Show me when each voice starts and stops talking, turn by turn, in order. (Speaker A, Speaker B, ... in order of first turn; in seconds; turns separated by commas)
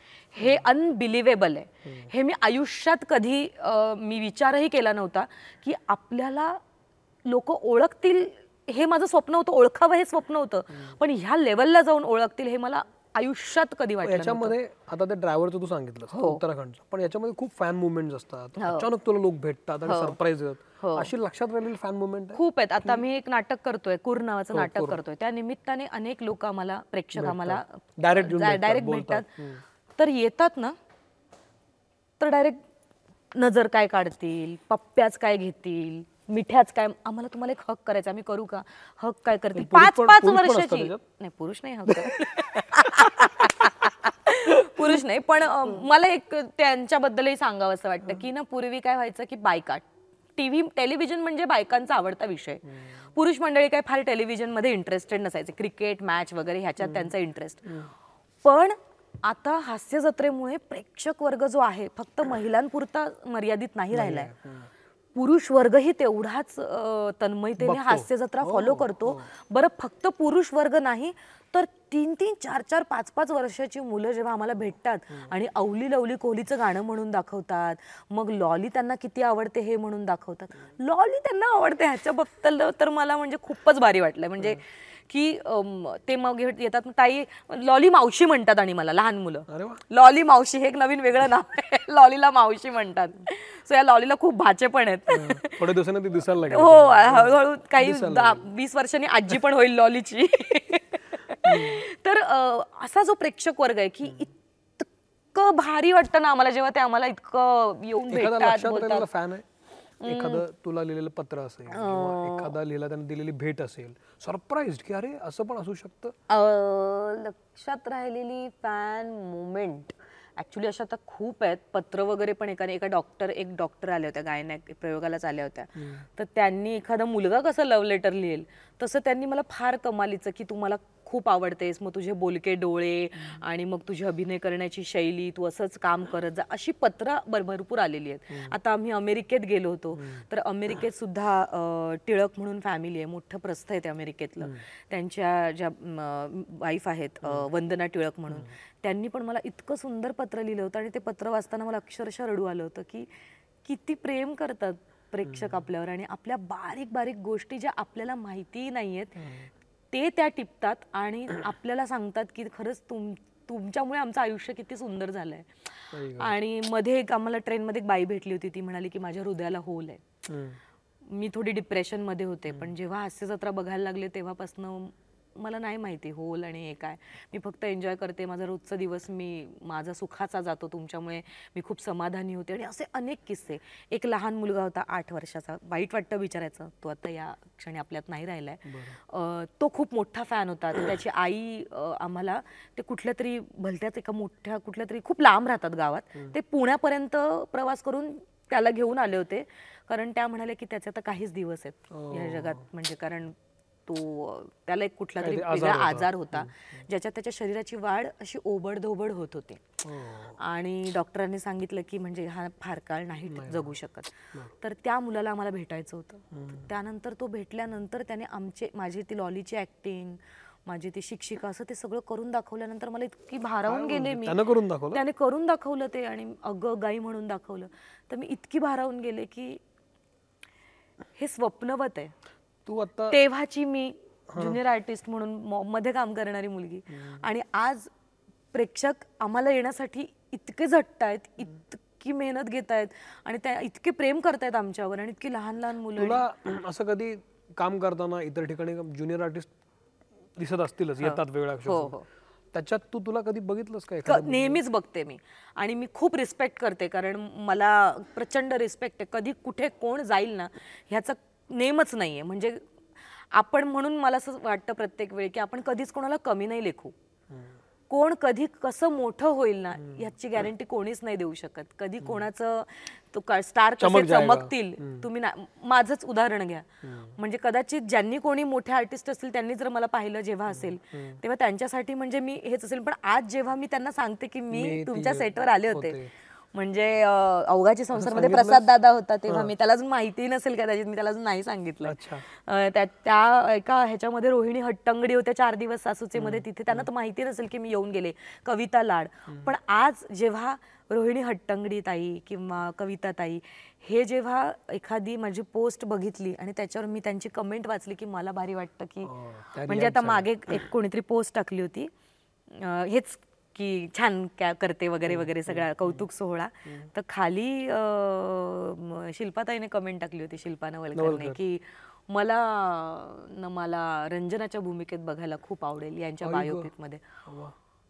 Speaker A: 0.3-6.6, Speaker A: 7.2-14.5, Speaker B: 14.0-23.0, Speaker A: 16.1-16.4, Speaker A: 18.6-18.9, Speaker A: 19.9-20.1, Speaker A: 20.8-21.1, Speaker A: 22.3-29.3, Speaker B: 24.5-25.0, Speaker B: 27.1-29.6, Speaker A: 30.0-30.8, Speaker A: 32.2-32.6, Speaker A: 33.3-49.8, Speaker B: 39.5-41.0, Speaker B: 41.9-43.5, Speaker B: 44.5-45.0, Speaker A: 50.4-57.8, Speaker B: 56.8-57.1, Speaker A: 58.4-64.3, Speaker B: 63.9-64.7, Speaker A: 65.1-95.7, Speaker B: 67.6-69.3, Speaker B: 89.5-89.8, Speaker B: 95.1-98.4, Speaker A: 96.5-109.0, Speaker B: 101.4-101.8, Speaker B: 108.1-109.5, Speaker A: 110.0-110.4, Speaker B: 110.0-116.1, Speaker A: 111.7-112.5, Speaker A: 116.3-153.1, Speaker B: 139.9-140.2, Speaker A: 153.6-159.3, Speaker B: 155.2-155.6, Speaker B: 159.2-159.5, Speaker A: 159.9-170.0, Speaker B: 165.9-166.3, Speaker B: 170.2-170.6, Speaker A: 171.1-203.3, Speaker B: 188.7-188.9, Speaker B: 201.9-202.6, Speaker A: 203.9-209.6, Speaker B: 205.2-206.5, Speaker B: 209.8-210.4, Speaker A: 210.4-229.6, Speaker B: 213.3-213.8, Speaker B: 216.3-216.7, Speaker B: 223.7-225.0, Speaker A: 231.2-232.1, Speaker B: 232.7-233.2, Speaker A: 233.1-237.9, Speaker B: 234.3-234.6, Speaker A: 238.5-246.2, Speaker B: 245.9-249.5, Speaker B: 250.3-251.9, Speaker A: 251.0-252.0, Speaker B: 252.5-254.6, Speaker A: 254.1-262.6, Speaker A: 263.3-266.9, Speaker A: 267.9-286.0, Speaker B: 273.8-275.1, Speaker B: 276.8-277.1, Speaker B: 280.5-281.2, Speaker B: 284.5-286.1, Speaker A: 286.5-309.1, Speaker B: 287.9-288.6, Speaker B: 291.8-292.2, Speaker B: 296.1-296.8, Speaker B: 309.0-310.3, Speaker A: 309.6-311.9, Speaker A: 312.5-327.0, Speaker B: 315.1-316.1, Speaker B: 320.9-321.4, Speaker B: 326.2-326.7, Speaker B: 327.2-327.5